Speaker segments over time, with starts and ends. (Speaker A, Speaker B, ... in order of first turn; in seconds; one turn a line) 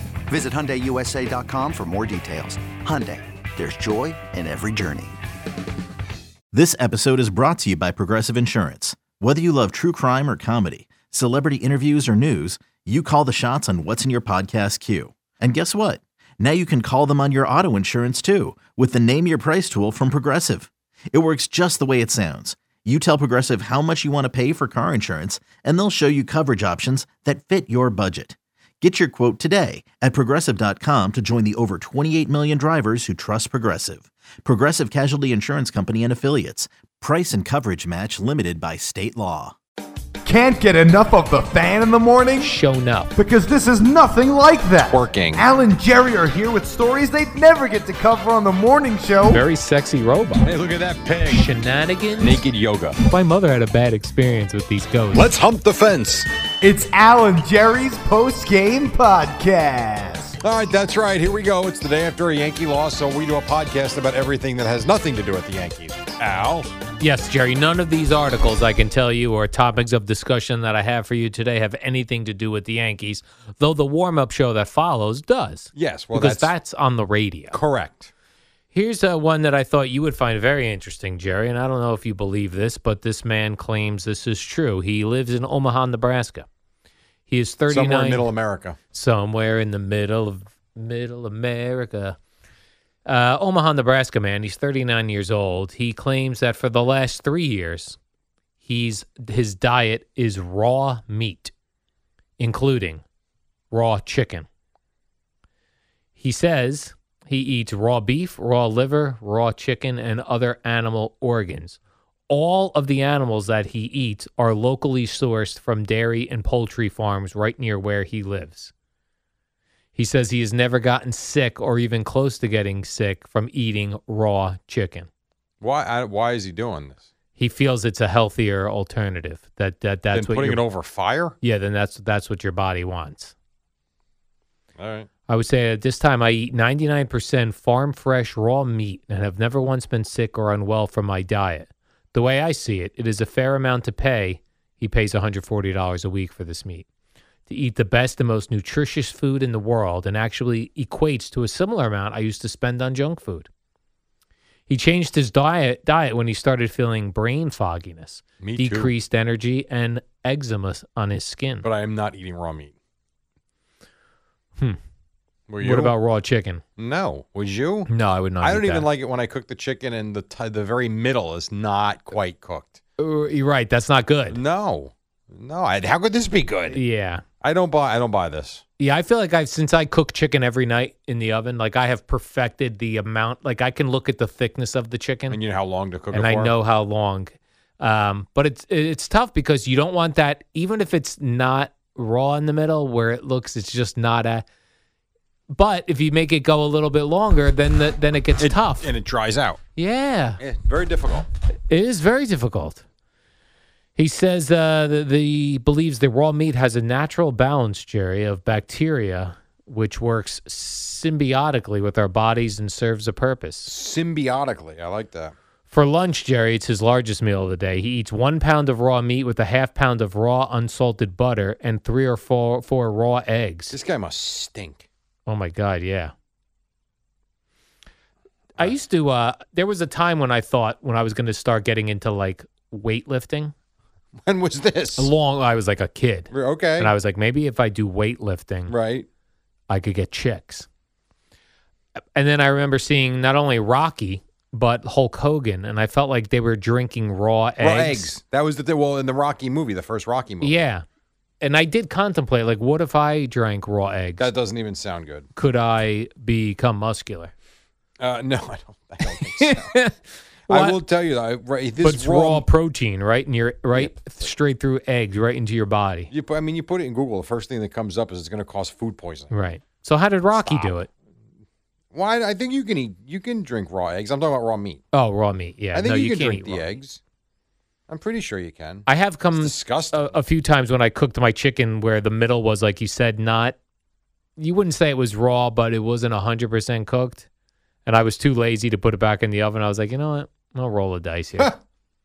Speaker A: 0.3-5.2
Speaker B: 6.5-39.6
Speaker C: 40.2-42.5
Speaker D: 42.4-43.1
Speaker C: 43.2-49.4
Speaker E: 44.8-45.5
Speaker D: 49.3-50.5
Speaker E: 50.4-51.5
Speaker D: 51.3-52.4
Speaker E: 52.2-53.0
Speaker D: 53.0-55.3
Speaker E: 55.1-56.3
Speaker C: 56.6-60.4
Speaker E: 60.4-66.7
Speaker D: 67.0-77.6
Speaker E: 75.8-76.5
Speaker E: 77.5-78.1
Speaker D: 78.7-86.5
Speaker D: 87.3-88.3
Speaker E: 87.7-88.8
Speaker D: 88.9-92.2
Speaker D: 93.1-98.0
Speaker D: 98.6-101.5
Speaker D: 102.4-103.0
Speaker D: 103.7-104.5
Speaker D: 106.2-111.8
Speaker D: 112.3-118.7
Speaker D: 120.0-125.1
Speaker E: 125.6-127.0
Speaker D: 127.4-130.6
Speaker E: 130.1-131.3
Speaker D: 131.4-133.3
Speaker E: 134.8-135.1
Speaker D: 135.3-146.9
Speaker D: 147.5-153.5
Speaker D: 154.7-161.7
Speaker E: 158.4-158.9
Speaker E: 161.6-162.7
Speaker E: 165.5-165.9
Speaker D: 165.6-166.6
Speaker E: 166.8-167.9
Speaker D: 167.9-168.9
Speaker E: 168.4-172.8
Speaker D: 173.0-174.4
Speaker E: 174.3-176.8
Speaker D: 176.7-177.2
Speaker E: 177.4-178.6
Speaker D: 178.8-185.4
Speaker E: 185.3-186.5
Speaker D: 186.1-194.4
Speaker D: 195.5-198.9
Speaker E: 198.4-199.6
Speaker D: 199.8-200.4
Speaker E: 200.4-201.3
Speaker D: 201.7-202.8
Speaker D: 204.0-213.7
Speaker E: 213.7-215.3
Speaker D: 215.7-223.8
Speaker E: 223.7-224.9
Speaker D: 225.3-226.1
Speaker D: 228.6-233.5
Speaker E: 234.2-235.1
Speaker D: 235.0-238.7
Speaker E: 236.3-236.9
Speaker E: 238.7-239.1
Speaker D: 239.7-240.7
Speaker D: 242.2-248.2
Speaker E: 247.6-250.6
Speaker D: 250.4-250.8
Speaker D: 251.4-254.3
Speaker E: 254.2-255.3
Speaker D: 255.3-257.3
Speaker E: 258.0-259.8
Speaker D: 259.0-260.8
Speaker E: 260.5-262.4
Speaker D: 261.8-266.1
Speaker E: 263.7-264.3
Speaker E: 266.1-269.3
Speaker D: 269.3-270.9
Speaker E: 270.4-270.8
Speaker E: 271.9-274.8
Speaker D: 274.9-276.6
Speaker E: 275.7-277.0
Speaker E: 277.9-280.2
Speaker D: 278.9-283.6
Speaker D: 284.4-287.3
Speaker D: 287.9-291.5